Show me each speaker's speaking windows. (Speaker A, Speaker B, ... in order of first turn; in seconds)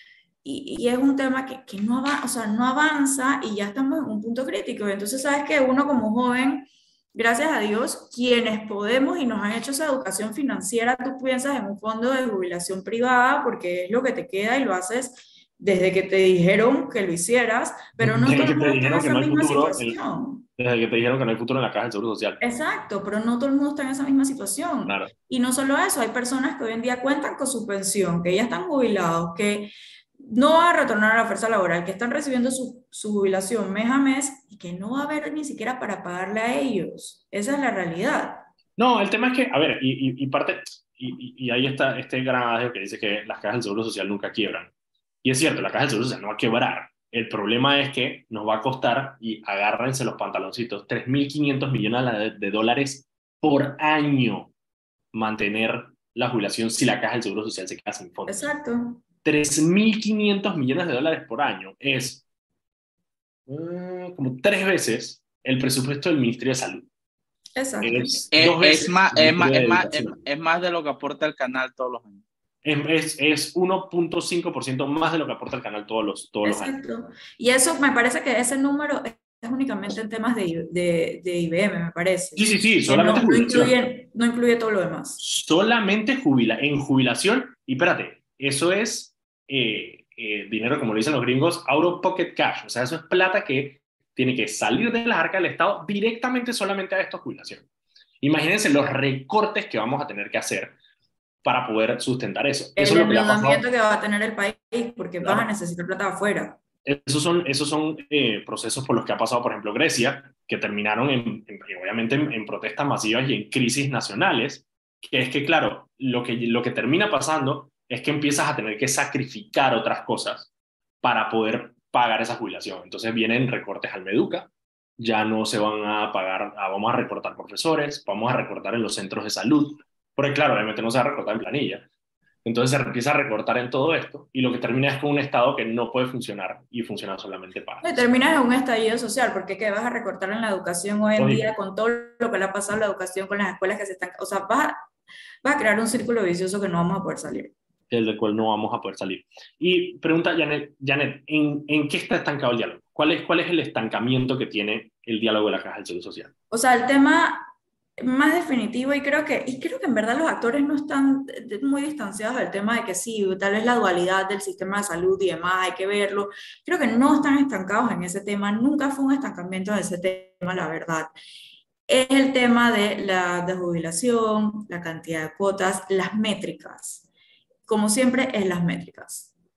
Speaker A: 0.4-20.4, 22.4-38.4, 58.3-59.0, 67.5-68.3, 76.4-85.2, 102.8-106.6, 137.8-144.8, 145.4-147.5, 156.5-171.1, 171.9-177.1, 177.7-179.3
Speaker B: 18.0-20.0, 20.6-22.4, 24.8-25.1, 38.8-44.7, 45.2-54.5, 55.1-58.5, 59.2-62.2, 63.5-66.9, 67.8-70.2, 72.6-76.8, 82.3-83.7, 85.2-97.7, 98.2-100.8, 101.4-103.6, 105.2-105.5, 106.8-120.5, 121.0-131.8, 132.4-138.1, 141.2-141.5, 147.9-156.3
Speaker C: 68.3-72.2